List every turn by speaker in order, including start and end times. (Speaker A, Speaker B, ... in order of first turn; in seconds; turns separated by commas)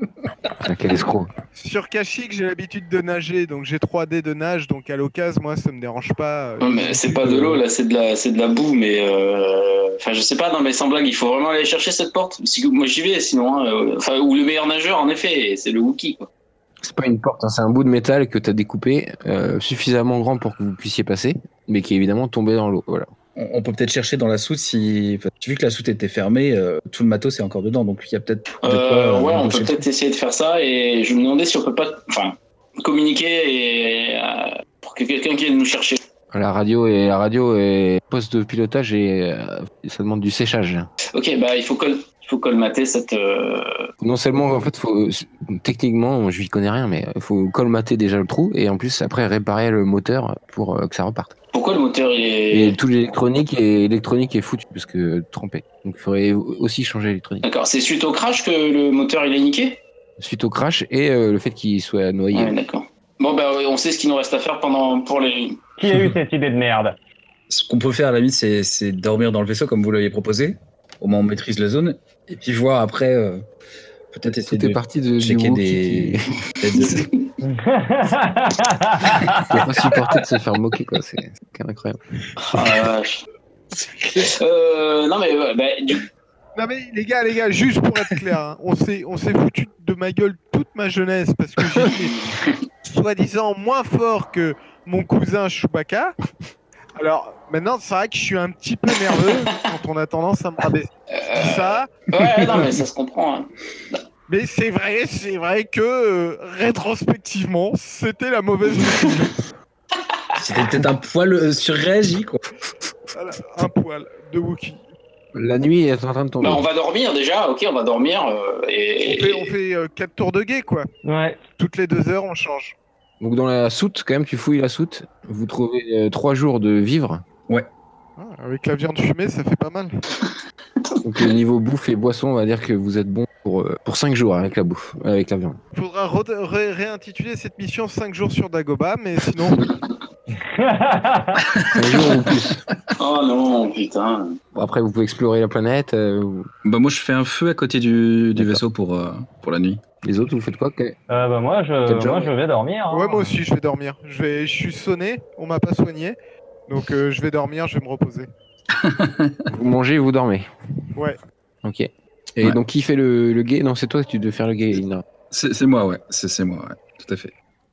Speaker A: 0.6-1.3, Speaker B: 1.6-7.6, Speaker C: 6.6-16.3, Speaker A: 16.8-23.1, Speaker D: 23.4-29.8, Speaker C: 28.6-36.0, Speaker A: 36.3-40.9, Speaker C: 41.1-43.9, Speaker A: 44.0-51.3, Speaker C: 51.5-52.8, Speaker A: 52.5-57.4, Speaker C: 57.4-59.8, Speaker A: 60.2-62.5, Speaker C: 62.3-65.6, Speaker E: 65.8-67.0, Speaker D: 67.5-73.4, Speaker D: 74.1-77.1, Speaker A: 74.4-76.4, Speaker C: 76.8-77.3, Speaker E: 77.4-79.6, Speaker A: 79.5-82.0, Speaker C: 82.4-83.2, Speaker C: 84.2-86.0, Speaker B: 86.5-96.1, Speaker C: 92.3-92.5, Speaker B: 97.0-101.9, Speaker C: 101.1-104.0, Speaker B: 104.3-109.4, Speaker D: 110.3-112.4, Speaker B: 113.1-114.8, Speaker A: 115.3-116.6, Speaker C: 116.4-119.5, Speaker B: 119.0-120.9, Speaker E: 121.0-121.4, Speaker B: 121.6-122.8, Speaker A: 123.2-127.2, Speaker B: 128.2-129.9, Speaker C: 130.8-131.3, Speaker A: 131.0-135.6, Speaker B: 135.7-139.8, Speaker E: 140.3-141.4, Speaker D: 141.5-141.9, Speaker A: 141.7-142.6, Speaker C: 143.0-144.4, Speaker A: 144.5-146.5, Speaker D: 146.6-149.8, Speaker A: 148.3-148.6, Speaker A: 150.0-150.9, Speaker E: 151.1-153.4, Speaker A: 151.8-152.3, Speaker B: 152.9-156.2, Speaker B: 156.7-158.3, Speaker D: 158.7-159.4, Speaker A: 159.5-160.5, Speaker A: 161.6-165.0, Speaker D: 165.3-167.3